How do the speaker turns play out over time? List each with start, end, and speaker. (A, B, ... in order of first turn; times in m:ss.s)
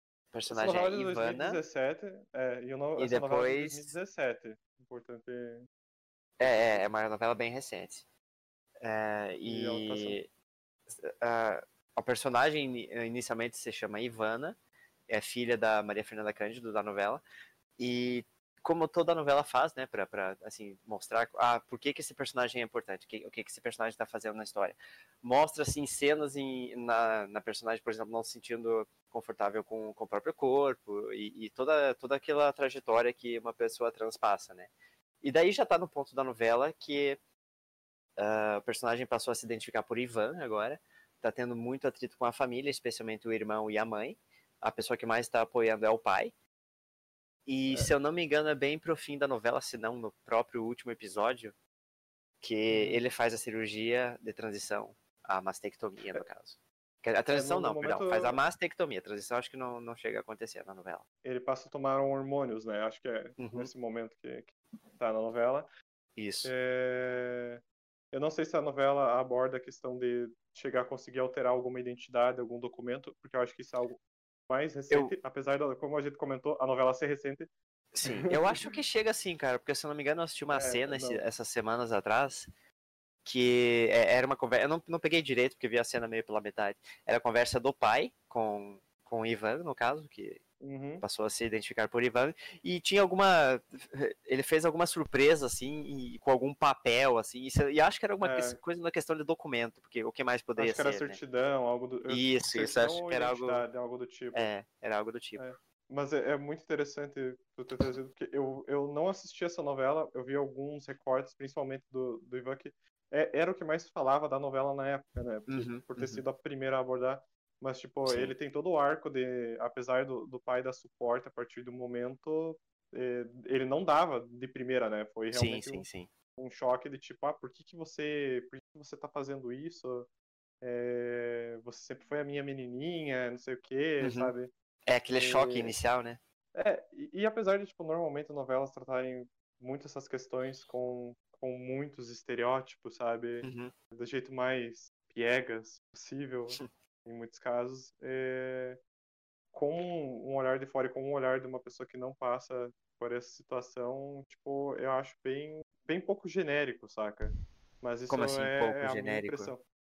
0:00.3-0:01.6 A
0:00.5-0:05.6 B
0:03.0-0:03.9 A
0:06.4-0:08.0 A
0:06.4-0:06.8 B
0:08.8-0:10.3 A
0:09.4-0:10.2 B
0:10.9-0:14.6 A
0:15.1-0:17.2 A
0:17.8-0:34.7 A
0:35.2-0:37.2 A
0:38.2-0:46.3 A
0:47.5-0:51.5 A
0:52.4-1:01.0 A
0:52.7-0:53.0 B
0:57.3-0:58.4 B
1:01.2-1:05.7 B
1:03.4-1:03.7 A
1:06.2-1:06.5 A
1:06.4-1:17.5 B
1:17.9-1:22.5 A
1:18.0-1:18.6 B
1:20.5-1:21.2 B
1:23.2-1:30.4 A
1:30.6-1:31.0 B
1:31.0-1:41.2 A
1:38.2-1:38.6 B
1:40.6-1:44.5 B
1:42.1-1:43.6 A
1:44.3-1:45.4 A
1:45.4-2:05.8 B
1:55.5-1:56.2 A
1:58.0-1:58.3 A
2:05.3-2:06.1 A
2:06.4-2:10.1 B
2:10.6-2:14.5 B
2:14.0-2:14.3 A
2:14.8-2:16.2 A
2:15.1-2:15.7 B
2:16.5-2:28.8 B
2:23.4-2:23.7 A
2:29.5-2:39.6 B
2:38.1-2:39.5 A